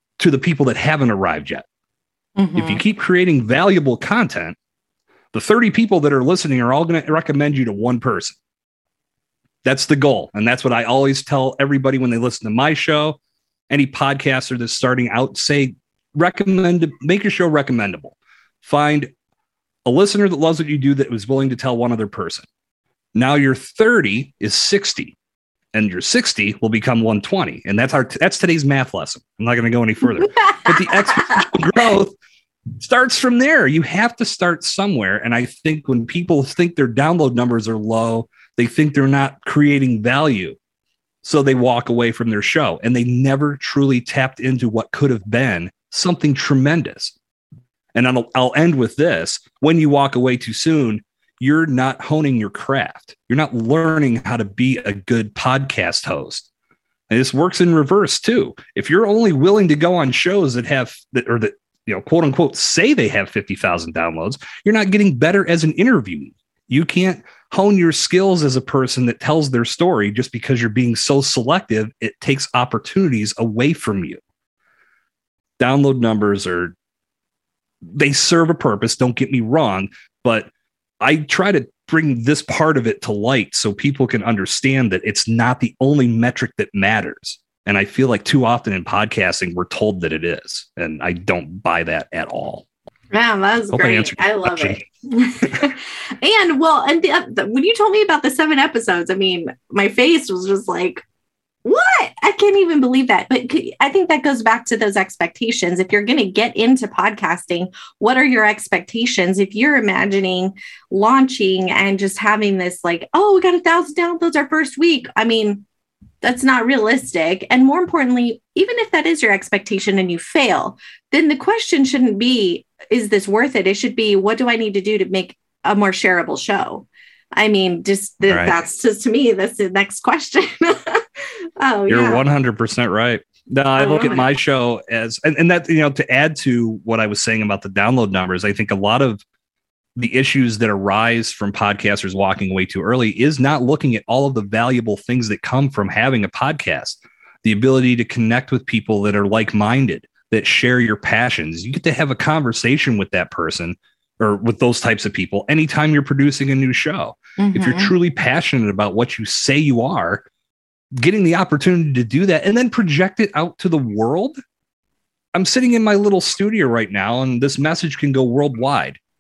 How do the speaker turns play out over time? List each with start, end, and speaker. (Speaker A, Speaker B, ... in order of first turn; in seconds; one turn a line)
Speaker A: 0.2-1.6
Speaker B: 2.4-2.8
Speaker A: 2.5-4.5
Speaker A: 5.3-8.4
Speaker A: 9.6-13.2
Speaker A: 13.7-19.1
Speaker A: 19.9-22.4
Speaker A: 23.1-25.1
Speaker A: 25.7-32.1
Speaker A: 32.8-40.6
Speaker A: 41.2-47.1
Speaker A: 47.9-56.5
Speaker A: 57.1-74.2
Speaker A: 75.6-76.7
Speaker A: 77.8-80.5
Speaker A: 81.0-92.6
Speaker B: 93.1-101.0
Speaker A: 93.7-94.8
Speaker B: 101.6-115.6
Speaker B: 116.2-132.2
Speaker A: 128.3-128.5
Speaker A: 131.9-139.2
Speaker B: 133.8-134.3
Speaker A: 139.9-160.2
Speaker B: 157.4-157.9
Speaker A: 160.9-164.4
Speaker A: 165.3-169.0